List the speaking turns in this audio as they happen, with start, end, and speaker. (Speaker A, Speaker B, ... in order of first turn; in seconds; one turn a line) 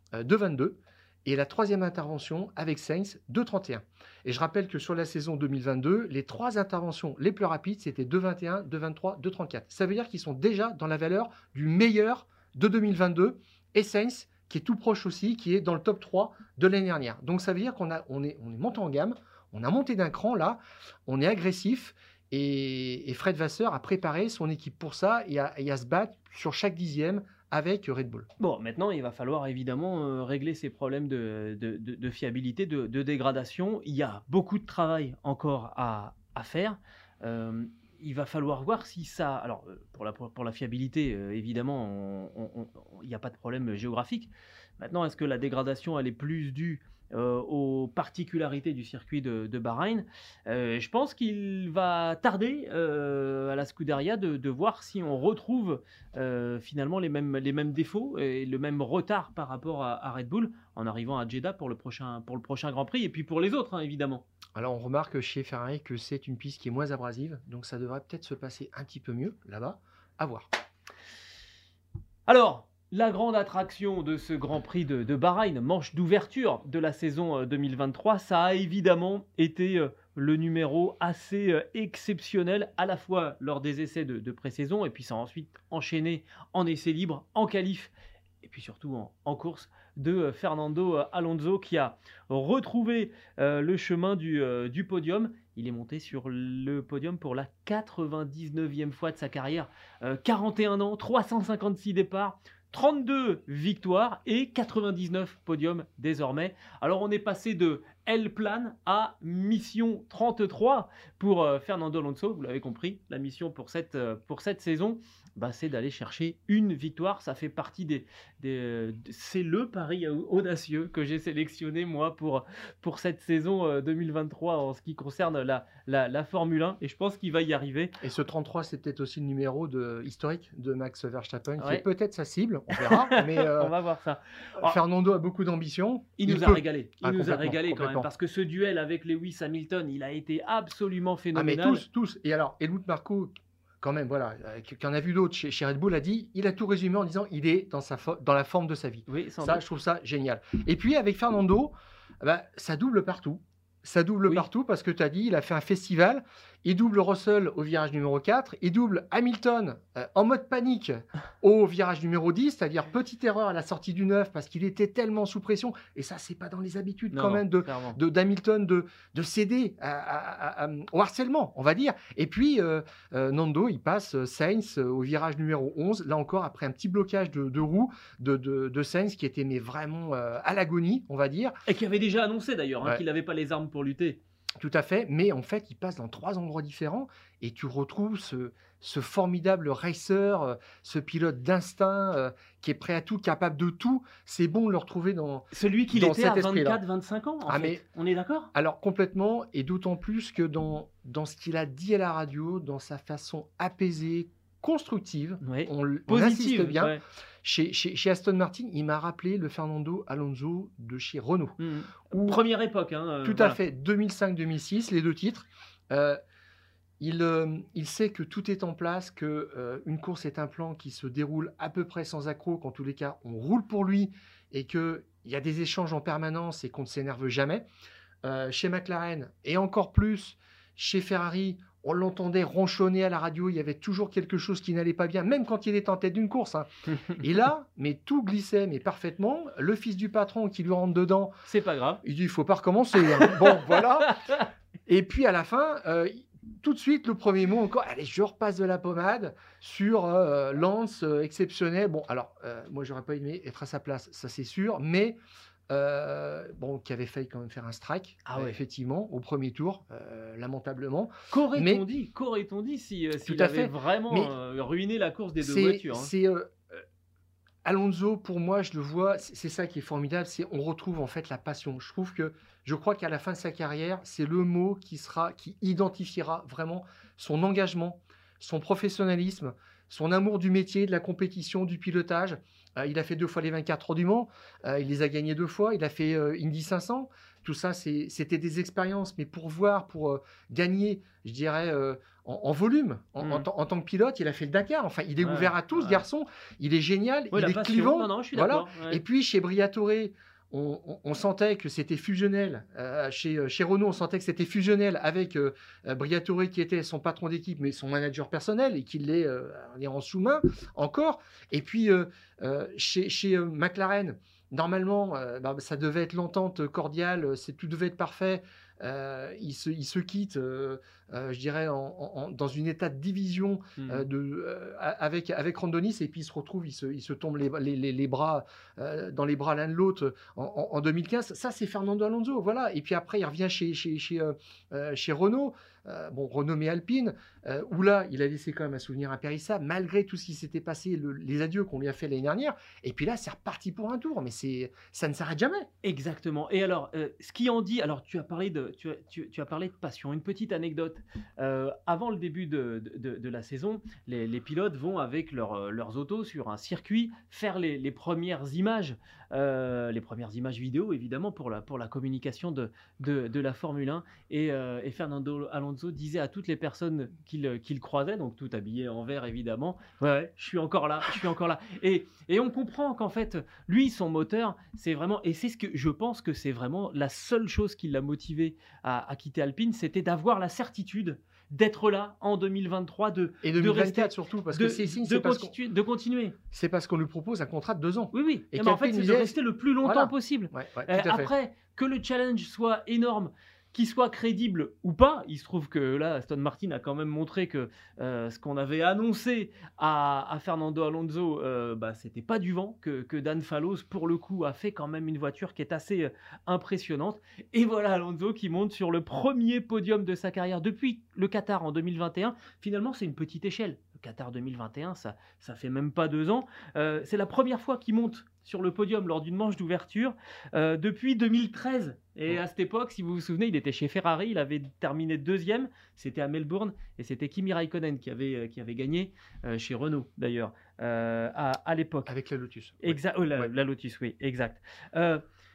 Speaker A: 0.1-28.3
Speaker B: 28.4-64.2
Speaker A: 64.5-70.5
Speaker B: 72.3-87.9
Speaker B: 88.4-127.9
Speaker A: 128.0-133.7
Speaker B: 131.6-131.8
Speaker B: 132.7-134.8
Speaker A: 134.6-138.1
Speaker B: 136.2-141.8
Speaker A: 141.3-181.6
Speaker B: 149.1-149.6
Speaker B: 167.1-168.0
Speaker B: 181.7-184.2
Speaker A: 184.6-196.8
Speaker B: 195.5-198.5
Speaker A: 197.5-197.8
Speaker A: 198.5-212.4
Speaker B: 205.4-207.0
Speaker B: 211.6-213.6
Speaker A: 213.2-216.2
Speaker A: 217.0-227.7
Speaker A: 228.2-241.4
Speaker B: 241.5-242.0
Speaker A: 242.0-244.2
Speaker B: 243.2-244.4
Speaker A: 244.9-261.9
Speaker B: 258.2-258.6
Speaker B: 261.3-266.1
Speaker A: 263.2-264.3
Speaker A: 265.4-266.8
Speaker A: 267.6-345.7
Speaker B: 293.2-293.5
Speaker B: 295.2-296.0
Speaker B: 297.3-299.0
Speaker B: 323.8-324.1
Speaker B: 345.8-386.4
Speaker A: 383.4-385.5
Speaker A: 386.5-391.3
Speaker B: 388.1-432.1
Speaker A: 432.1-433.5
Speaker B: 432.8-435.2